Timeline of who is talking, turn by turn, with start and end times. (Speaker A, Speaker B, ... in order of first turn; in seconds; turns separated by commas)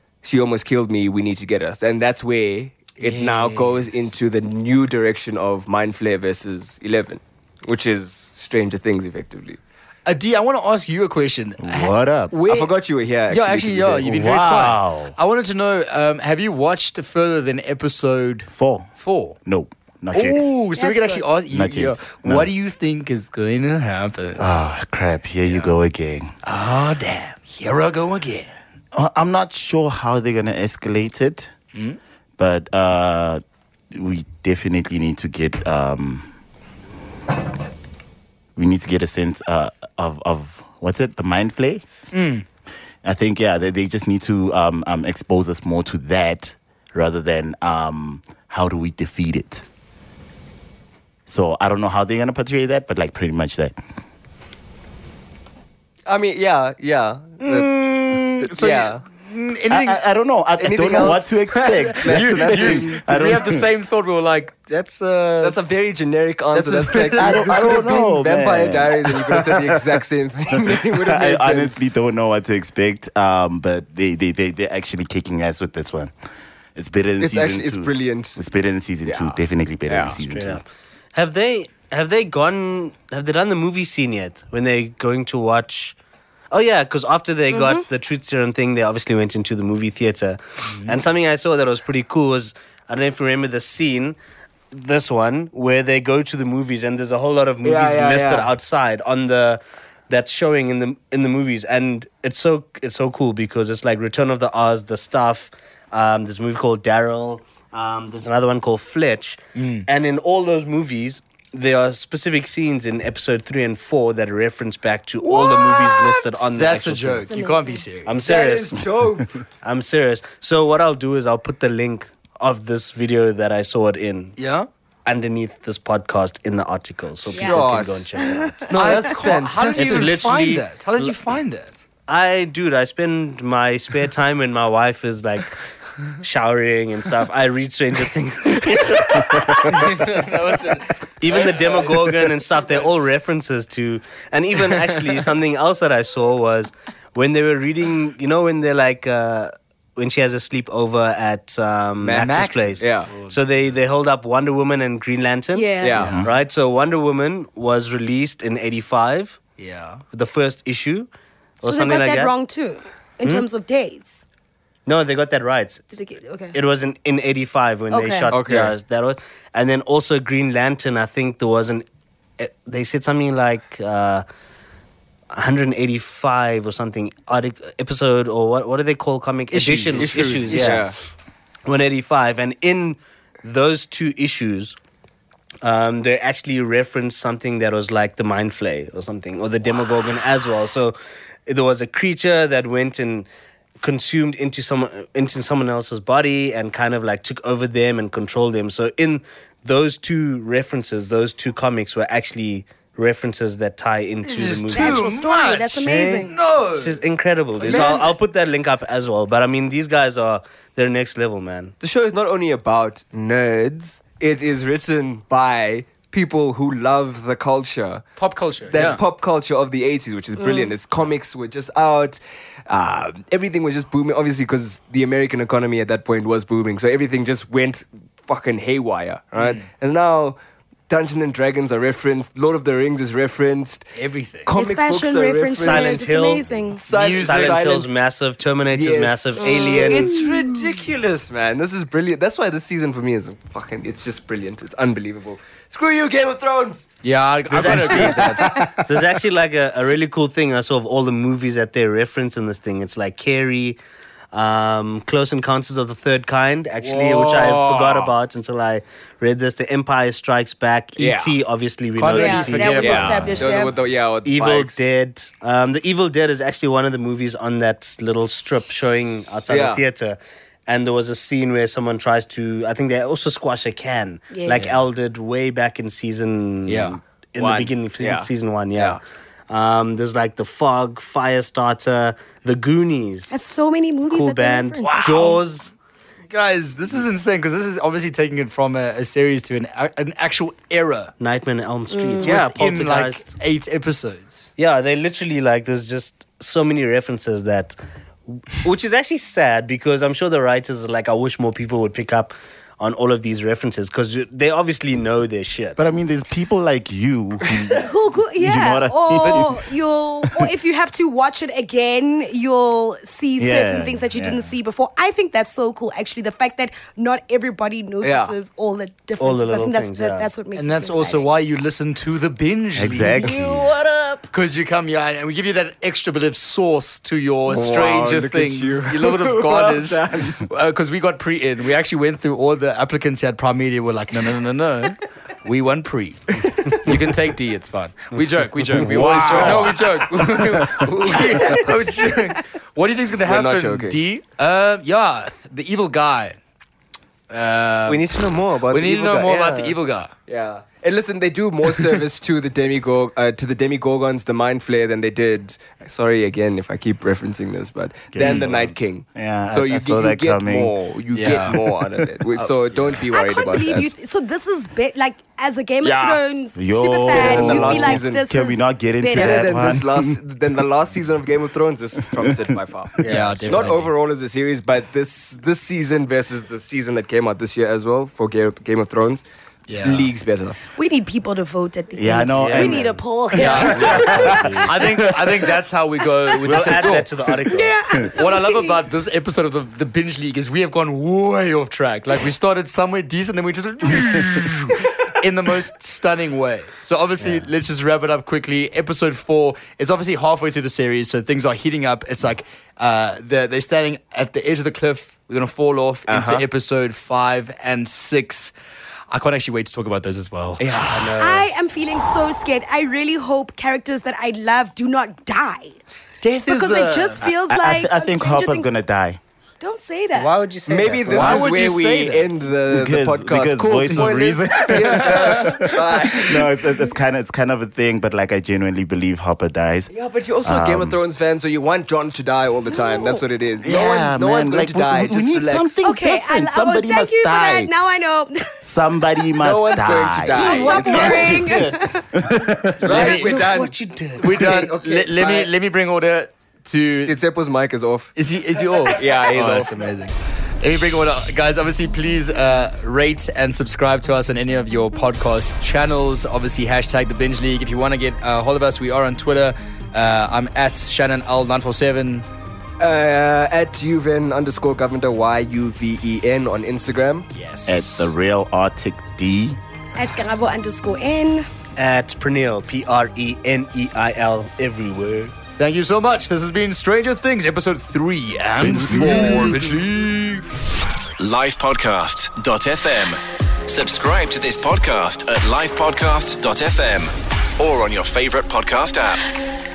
Speaker A: 0.2-9.6, Speaker B: 3.0-3.9, Speaker B: 10.1-12.7, Speaker C: 11.6-12.3, Speaker A: 12.3-14.3, Speaker B: 13.3-19.4, Speaker C: 14.2-15.1, Speaker C: 18.5-18.9, Speaker C: 19.4-20.5, Speaker B: 20.1-24.5, Speaker D: 20.7-21.3, Speaker C: 21.5-22.5, Speaker C: 24.4-26.3, Speaker B: 25.5-25.7, Speaker B: 26.4-28.5, Speaker C: 28.9-31.5, Speaker C: 32.4-36.3, Speaker C: 38.5-41.9, Speaker B: 42.1-42.4, Speaker C: 43.0-49.6, Speaker C: 51.3-53.8, Speaker A: 56.0-57.7, Speaker B: 57.4-60.0, Speaker A: 58.4-59.0, Speaker C: 59.7-63.6, Speaker A: 60.6-63.0, Speaker B: 60.9-65.6, Speaker A: 65.4-71.8, Speaker B: 66.5-67.8, Speaker C: 67.1-70.0, Speaker C: 70.5-76.1, Speaker C: 76.7-80.6, Speaker A: 77.2-78.4, Speaker A: 79.0-79.3, Speaker A: 79.9-80.2, Speaker E: 80.2-86.0, Speaker E: 86.5-94.2, Speaker D: 87.5-87.8, Speaker E: 94.7-117.3, Speaker A: 97.6-98.5, Speaker B: 109.5-109.9, Speaker B: 115.3-118.2, Speaker A: 115.3-116.2, Speaker D: 117.3-117.8, Speaker E: 118.0-118.8, Speaker A: 118.2-119.3, Speaker E: 119.6-124.3, Speaker B: 124.4-124.7, Speaker E: 125.0-131.1, Speaker D: 127.3-129.1, Speaker A: 127.3-128.1, Speaker B: 128.7-131.8, Speaker A: 128.7-130.2, Speaker E: 132.1-135.6, Speaker E: 136.2-140.3, Speaker B: 138.7-143.0, Speaker E: 141.2-159.4, Speaker A: 152.0-153.1, Speaker B: 152.1-153.4, Speaker D: 155.5-156.1, Speaker A: 155.8-156.2, Speaker C: 156.0-156.3, Speaker B: 159.6-160.0, Speaker E: 160.1-162.3, Speaker D: 161.6-164.2, Speaker E: 164.8-165.8, Speaker D: 165.9-166.6, Speaker E: 166.5-171.9, Speaker D: 167.9-168.3, Speaker A: 168.3-168.7, Speaker E: 172.4-174.2, Speaker E: 175.3-181.0, Speaker B: 179.5-180.9, Speaker A: 179.9-181.0, Speaker E: 181.7-184.8, Speaker E: 185.6-193.3, Speaker E: 193.8-205.1, Speaker D: 204.2-206.3, Speaker B: 204.3-207.0, Speaker E: 205.9-206.2, Speaker E: 206.7-211.7, Speaker A: 207.6-208.2, Speaker D: 207.7-208.1, Speaker A: 211.8-218.1, Speaker B: 218.2-219.0, Speaker A: 218.7-222.2, Speaker D: 220.4-220.7, Speaker A: 222.7-230.4, Speaker B: 229.4-229.6, Speaker A: 230.9-233.9, Speaker B: 233.9-234.5, Speaker A: 234.4-236.1, Speaker D: 234.5-236.8, Speaker E: 235.6-236.4, Speaker A: 236.8-237.9, Speaker B: 236.9-237.6, Speaker E: 237.0-240.2, Speaker A: 238.7-246.9, Speaker D: 239.4-240.2, Speaker B: 247.0-249.1, Speaker E: 247.5-253.8, Speaker A: 247.6-248.1, Speaker E: 254.3-263.3, Speaker A: 256.8-258.1, Speaker B: 257.1-257.5, Speaker A: 261.0-261.4, Speaker B: 261.9-263.6, Speaker D: 262.1-263.7, Speaker A: 262.8-264.8, Speaker E: 264.2-283.3, Speaker A: 269.5-269.8, Speaker D: 274.3-274.7, Speaker B: 276.6-277.0, Speaker A: 277.4-279.0, Speaker D: 283.3-285.4, Speaker E: 284.1-285.7, Speaker B: 286.3-291.1, Speaker E: 291.2-293.3, Speaker D: 291.9-292.4, Speaker B: 292.2-294.5, Speaker E: 294.6-297.8, Speaker E: 298.3-305.8, Speaker C: 305.8-309.6, Speaker D: 307.8-321.3, Speaker B: 309.2-309.5, Speaker C: 313.4-314.5, Speaker A: 318.0-318.3, Speaker E: 319.2-320.3, Speaker B: 320.5-323.4, Speaker C: 322.7-323.7, Speaker A: 323.2-324.2, Speaker B: 324.3-346.4, Speaker A: 327.5-330.4, Speaker A: 336.4-336.8, Speaker A: 338.9-341.6, Speaker E: 338.9-339.7, Speaker A: 343.2-344.0, Speaker B: 347.3-350.1, Speaker A: 347.9-349.8, Speaker A: 350.3-363.9, Speaker C: 358.1-360.7, Speaker B: 358.2-358.5, Speaker B: 361.1-361.6, Speaker D: 363.1-369.5, Speaker A: 365.8-366.2, Speaker C: 366.5-370.2, Speaker A: 367.1-368.2, Speaker B: 367.4-368.0, Speaker A: 369.1-379.2, Speaker E: 373.0-373.8, Speaker B: 373.1-373.9, Speaker B: 379.7-380.1, Speaker A: 379.8-380.6, Speaker D: 380.7-384.7, Speaker C: 381.9-385.1, Speaker E: 382.3-382.9, Speaker B: 383.4-387.1, Speaker E: 383.4-384.6, Speaker D: 386.2-386.8, Speaker E: 386.4-387.8, Speaker D: 387.5-388.8, Speaker B: 388.0-408.5, Speaker A: 406.1-406.4, Speaker B: 409.1-411.1, Speaker A: 410.6-411.0, Speaker E: 410.9-411.5, Speaker D: 411.2-415.8, Speaker B: 416.2-417.3, Speaker D: 416.4-418.7, Speaker C: 417.4-419.2, Speaker D: 419.6-420.3, Speaker E: 420.1-421.5, Speaker A: 420.7-426.7, Speaker B: 421.1-422.3, Speaker C: 421.1-421.5, Speaker C: 422.7-429.9, Speaker B: 424.7-425.6, Speaker A: 429.9-435.9, Speaker C: 430.4-431.0, Speaker C: 433.6-437.7, Speaker D: 435.8-438.6, Speaker C: 438.6-441.3, Speaker A: 439.4-441.4, Speaker D: 440.3-442.1, Speaker E: 440.4-441.9, Speaker C: 442.2-442.7, Speaker B: 442.3-443.5, Speaker A: 442.8-443.7, Speaker E: 442.9-444.7, Speaker B: 444.2-447.2, Speaker A: 444.2-445.5, Speaker A: 447.1-448.1, Speaker B: 448.1-462.2, Speaker A: 448.9-449.7, Speaker A: 462.8-467.3, Speaker B: 467.3-468.1, Speaker C: 467.7-469.6, Speaker D: 469.9-471.5, Speaker E: 471.8-475.3, Speaker B: 475.5-480.6, Speaker C: 478.6-479.7, Speaker F: 481.2-489.2